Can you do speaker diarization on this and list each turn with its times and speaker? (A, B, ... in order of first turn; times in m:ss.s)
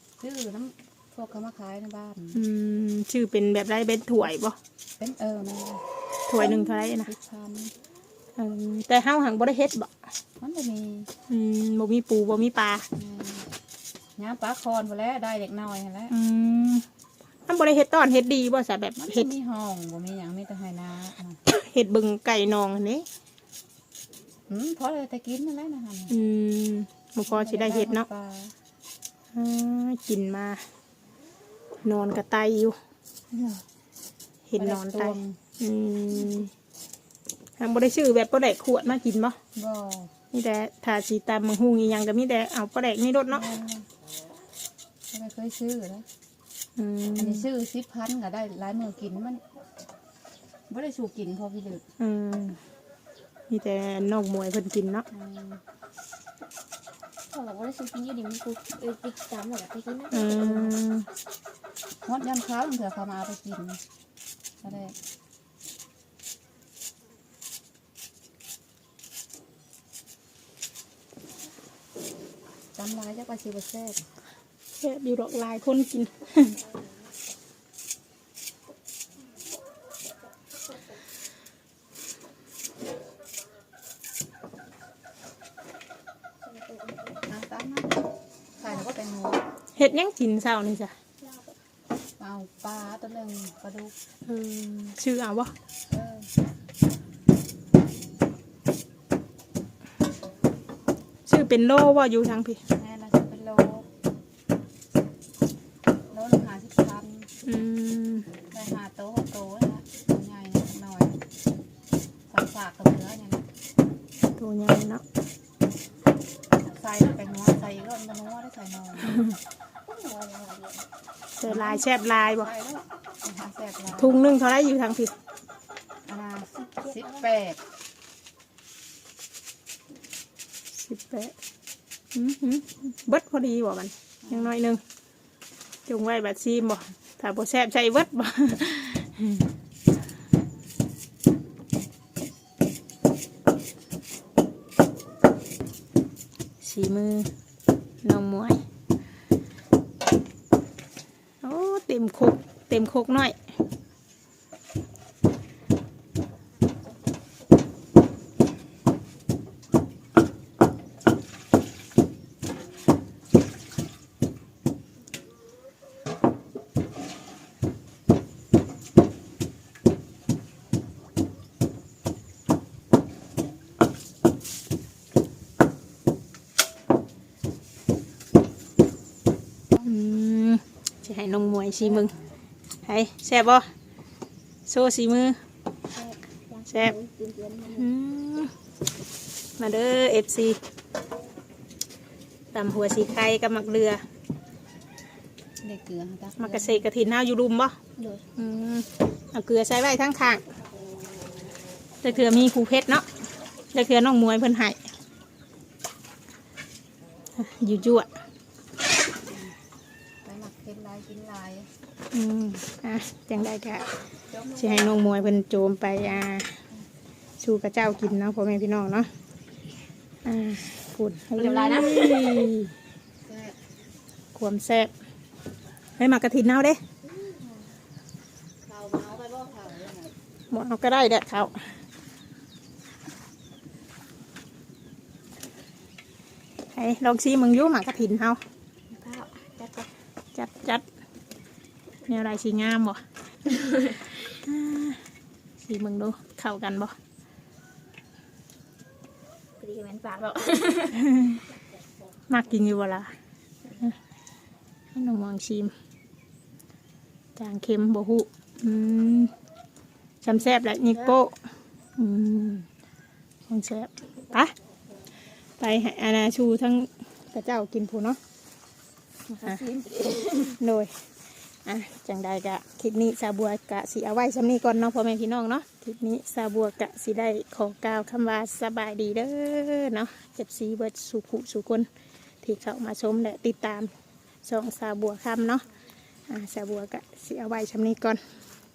0:00.2-0:02.4 A
0:02.3-0:04.6 B
0:05.0-0:05.8 A
0:06.3-0:07.1 B
0:06.4-0:07.7 A
0:08.4-0:09.9 B
0:10.4-0:11.1 A
0:11.3-0:12.9 B
0:13.0-0:13.5 A
0:14.2-0:16.1 A
0:16.1-0:16.8 B
0:17.5-0:19.3 B
0:19.0-0:21.4 A
0:21.5-0:23.1 B
0:24.5-0:26.1 A
0:26.1-0:28.1 B
0:27.3-0:28.6 A
0:29.3-0:30.6 B
0:31.8-0:32.8 B
0:33.3-0:33.6 A
0:34.5-0:36.5 B
0:34.6-0:35.4 A
0:37.6-0:39.4 B
0:39.6-0:40.1 A
0:40.3-0:43.4 B
0:43.3-0:43.9 A
0:45.1-0:46.1 A
0:46.8-0:47.5 B
0:47.2-0:49.4 A
0:50.7-0:51.8 A
0:52.0-0:52.6 B
0:53.5-0:55.1 B
0:55.1-0:55.6 A
0:57.3-1:00.8 A
0:57.4-0:59.3 C
1:00.1-1:01.1 B
1:02.0-1:03.8 A
1:04.6-1:05.0 A
1:12.8-1:14.0 A
1:14.8-1:16.6 B
1:26.5-1:28.0 A
1:28.6-1:29.4 A
1:29.8-1:30.9 B
1:32.2-1:34.0 A
1:34.3-1:35.5 B
1:35.9-1:36.3 A
1:41.3-1:42.6 B
1:42.8-1:43.9 A
1:46.1-1:47.3 A
1:47.4-1:48.3 B
1:48.5-1:51.2 A
1:52.3-1:53.4 A
1:54.4-1:55.0 B
1:56.6-1:59.3 A
1:59.8-2:00.9 A
2:01.4-2:02.5 B
2:01.4-2:01.8 A
2:02.4-2:04.2 A
2:04.0-2:05.1 B
2:06.0-2:07.6 A
2:06.8-2:07.2 C
2:10.8-2:11.3 B
2:12.1-2:14.8 B
2:15.9-2:19.5 B
2:26.6-2:27.3 B
2:28.0-2:28.6 B
2:31.4-2:33.4 B
2:59.8-3:02.1 B
3:02.8-3:03.7 B
3:04.7-3:05.4 B
3:05.9-3:07.9 A
3:06.7-3:07.0 B
3:07.7-3:08.5 B
3:09.6-3:10.6 B
3:12.5-3:14.0 B
3:15.6-3:16.8 A
3:16.4-3:17.8 B
3:18.0-3:18.2 A
3:18.4-3:20.4 B
3:22.0-3:23.0 B
3:23.7-3:24.8 B
3:27.4-3:28.1 B
3:29.2-3:29.5 A
3:30.2-3:31.7 A
3:32.1-3:33.9 B
3:34.3-3:35.1 A
3:34.5-3:36.6 B
3:37.4-3:39.1 B
3:40.2-3:42.7 B
3:41.4-3:42.5 A
3:43.2-3:43.6 A
3:44.4-3:44.9 B
3:46.0-3:46.8 B
3:47.1-3:47.6 A
3:48.6-3:50.1 A
3:50.5-3:51.6 B
3:56.7-3:58.4 B
3:59.0-3:59.7 C
3:59.0-3:59.9 A
4:00.4-4:00.8 B
4:02.1-4:03.0 B
4:04.2-4:05.0 B
4:05.6-4:06.9 B
4:09.6-4:10.9 C
4:10.5-4:11.0 A
4:11.0-4:11.4 B
4:12.3-4:13.1 B
4:15.0-4:15.7 B
4:17.4-4:19.3 B
4:20.2-4:21.4 B
4:22.0-4:22.7 B
4:23.5-4:24.5 B
4:25.6-4:28.2 B
4:29.3-4:29.8 C
4:29.5-4:30.6 A
4:30.5-4:30.9 B
4:31.6-4:41.9 B
4:42.4-4:43.9 B
4:44.4-4:45.6 B
4:46.3-4:48.2 B